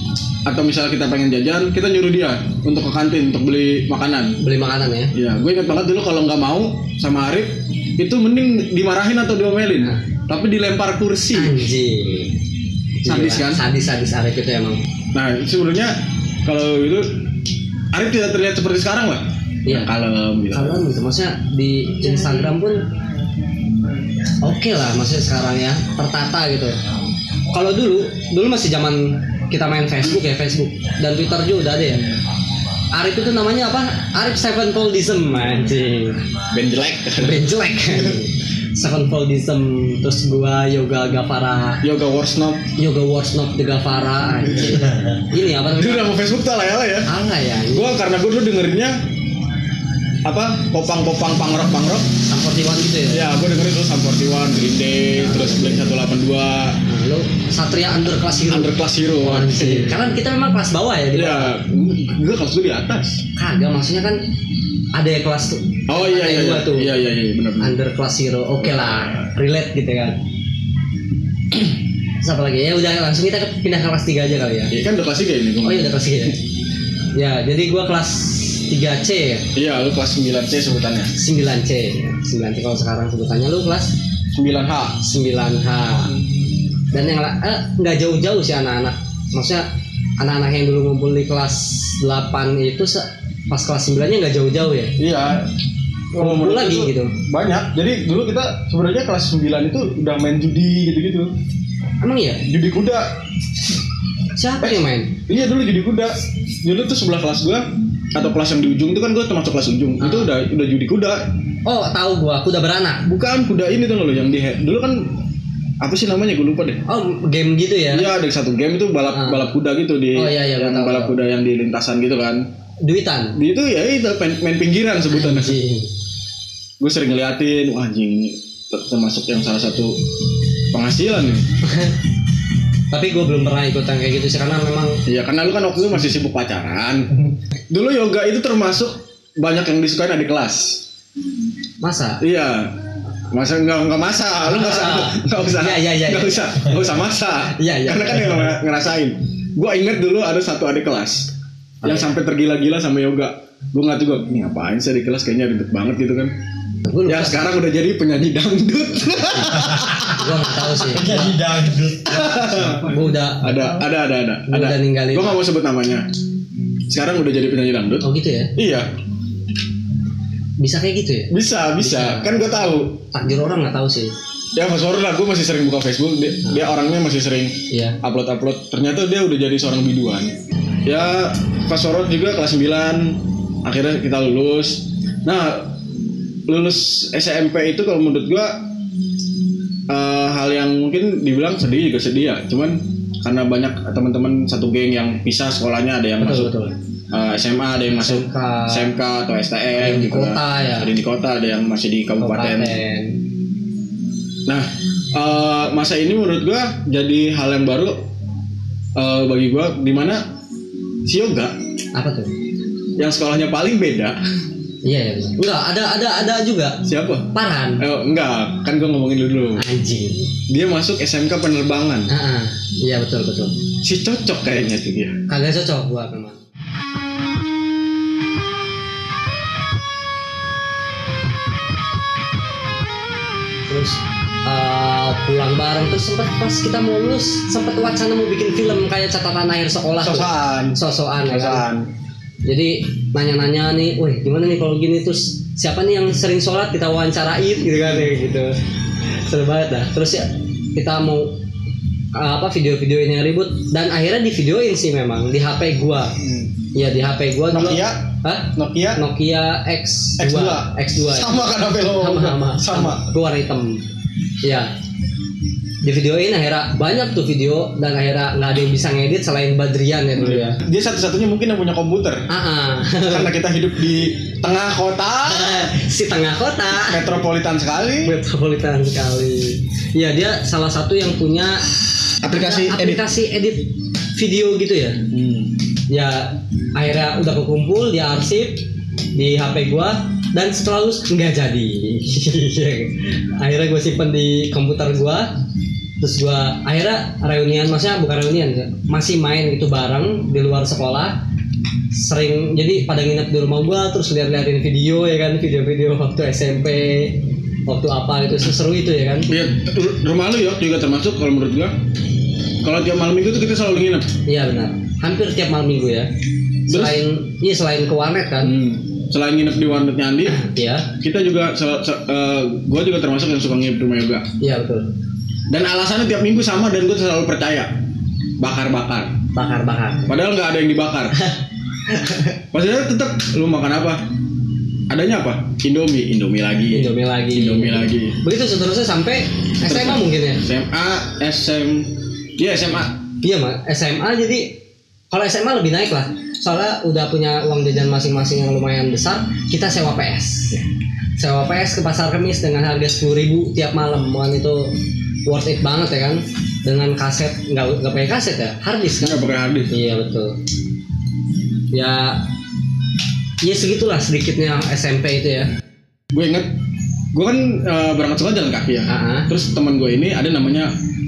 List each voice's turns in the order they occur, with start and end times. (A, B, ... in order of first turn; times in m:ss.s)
0:00.4-0:04.4 A
0:04.4-0:05.1 B
0:05.1-0:11.5 A
0:11.3-0:12.4 B
0:13.0-0:14.8 B
0:13.0-0:13.6 A
0:15.1-0:17.1 A
0:17.9-0:20.8 A
0:20.5-0:22.8 B
0:24.4-0:26.8 B
0:27.5-0:32.1 B
0:32.9-0:36.2 B
0:36.5-0:38.2 A
0:37.2-0:41.8 B
0:41.8-0:42.7 A
0:42.8-0:46.1 B
0:44.5-0:47.1 A
0:47.0-0:47.9 B
0:47.7-0:49.0 A
0:50.2-0:52.1 A
0:52.2-0:53.2 B
0:53.1-0:56.8 A
0:55.2-0:55.9 B
0:56.8-1:01.5 B
0:58.5-1:00.0 A
1:01.1-1:03.2 A
1:03.4-1:04.2 B
1:04.9-1:06.9 B
1:05.9-1:07.7 A
1:07.6-1:10.2 B
1:08.6-1:09.3 A
1:12.2-1:14.7 B
1:14.7-1:16.3 A
1:15.6-1:16.4 B
1:17.1-1:19.5 B
1:19.5-1:21.1 A
1:21.1-1:24.0 B
1:24.3-1:25.0 A
1:25.0-1:26.1 B
1:26.9-1:29.7 B
1:30.2-1:35.0 B
1:35.0-1:35.5 A
1:36.1-1:41.3 A
1:36.2-1:37.1 B
1:42.0-1:42.4 B
1:42.5-1:43.1 A
1:44.3-1:45.2 B
1:44.6-1:51.2 A
1:50.0-1:50.3 B
1:51.6-1:53.0 B
1:53.0-1:55.2 A
1:55.8-1:56.8 A
1:56.9-1:58.1 B
1:57.9-2:02.5 A
1:59.1-1:59.4 B
2:00.1-2:01.2 B
2:02.8-2:03.4 B
2:03.4-2:05.6 A
2:05.1-2:05.9 B
2:06.8-2:10.0 A
2:10.7-2:11.4 A
2:11.6-2:12.0 B
2:12.9-2:15.0 B
2:15.0-2:20.8 A
2:21.8-2:22.2 B
2:22.2-2:22.8 A
2:23.3-2:31.3 A
2:24.4-2:27.0 B
2:27.5-2:28.5 B
2:31.8-2:32.2 B
2:31.8-2:36.3 A
2:36.8-2:37.4 B
2:37.0-2:40.3 A
2:39.9-2:41.3 B
2:40.9-2:42.9 C
2:42.0-2:46.0 A
2:42.8-2:43.8 B
2:44.5-2:45.4 B
2:46.9-2:48.9 A
2:48.0-2:48.5 B
2:50.6-2:52.5 B
2:51.3-2:53.0 A
2:53.1-2:54.1 B
2:54.5-3:05.7 A
2:57.7-2:58.0 B
3:06.5-3:08.6 A
3:09.9-3:16.5 A
3:16.2-3:16.7 B
3:17.1-3:22.8 A
3:17.9-3:18.9 B
3:19.7-3:20.9 B
3:22.2-3:23.2 B
3:24.4-3:28.0 A
3:29.0-3:30.3 A
3:31.0-3:31.6 A
3:31.9-3:32.3 B
3:33.0-3:34.2 A
3:34.8-3:37.8 B
3:36.8-3:37.3 A
3:37.8-3:39.6 A
3:39.6-3:40.3 B
3:40.5-3:42.1 A
3:42.1-3:43.6 B
3:43.8-3:45.2 A
3:45.3-3:46.4 B
3:53.7-4:01.6 B
4:00.0-4:01.9 A
4:02.4-4:08.6 B
4:09.2-4:11.4 B
4:12.1-4:16.1 B
4:16.2-4:16.5 A
4:16.7-4:23.8 B
4:17.5-4:19.0 A
4:20.2-4:23.1 A
4:24.4-4:24.7 B
4:25.8-4:30.6 B
4:30.2-4:32.3 A
4:32.3-4:33.3 B
4:33.0-4:35.7 A
4:35.2-4:37.2 B
4:36.7-4:38.1 A
4:38.0-4:41.6 B
4:42.2-4:43.0 A
4:42.3-4:45.0 B
4:45.1-4:45.5 A
4:45.9-4:55.3 B
4:56.0-5:01.2 B
5:01.9-5:09.3 B
5:09.3-5:11.7 A
5:12.6-5:14.1 A
5:14.2-5:16.1 B
5:16.7-5:18.5 B
5:16.7-5:17.0 A
5:18.4-5:20.4 A
5:20.2-5:20.9 B
5:21.0-5:24.3 A
5:24.4-5:24.9 B
5:25.5-5:27.7 A
5:28.4-5:29.2 A
5:29.3-5:30.2 B
5:30.1-5:31.2 A
5:31.2-5:32.3 B
5:32.5-5:34.0 A
5:34.9-5:38.2 A
5:36.7-5:40.4 B
5:39.6-5:43.0 A
5:43.2-5:44.6 B
5:45.1-5:50.6 B
5:51.2-6:00.3 B
5:59.0-5:59.7 A
6:01.7-6:02.2 B
6:03.4-6:05.5 B
6:06.1-6:06.5 A
6:07.1-6:10.7 A
6:08.9-6:09.3 B